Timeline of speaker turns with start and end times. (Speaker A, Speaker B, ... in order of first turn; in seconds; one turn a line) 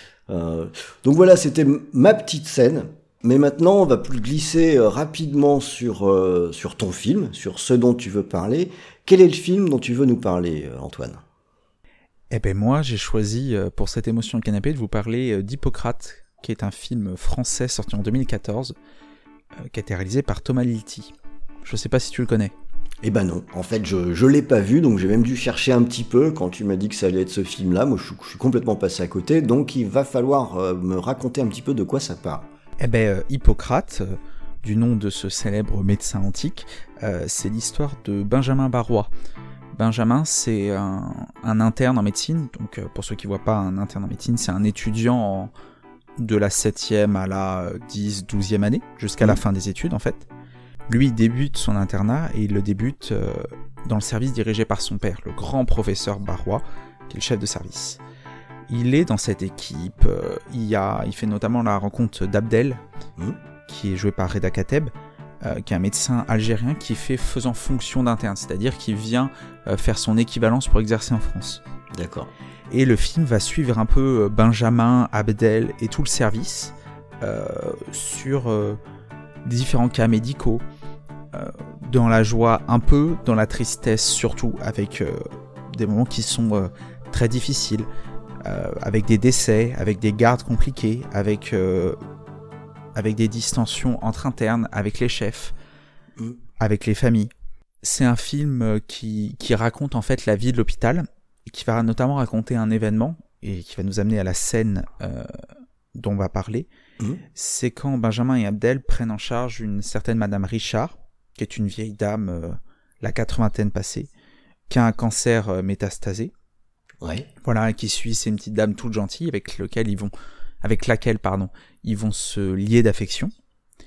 Speaker A: 0.3-11.2
Speaker B: 12.3-18.7
Speaker B: 19.6-22.5
Speaker A: 23.0-32.5
Speaker B: 32.8-39.1
Speaker B: 39.8-45.5
Speaker B: 46.2-50.3
Speaker B: 50.9-58.0
Speaker B: 58.7-62.8
Speaker B: 63.6-71.6
Speaker A: 71.9-72.3
Speaker B: 72.7-78.8
Speaker B: 79.4-80.6
Speaker B: 81.3-87.9
Speaker B: 88.4-92.0
Speaker B: 92.9-95.5
Speaker B: 96.6-97.3
Speaker B: 97.8-105.4
Speaker B: 106.0-106.7
Speaker B: 107.3-114.1
Speaker B: 114.7-116.3
Speaker A: 117.0-117.3
Speaker B: 117.4-123.3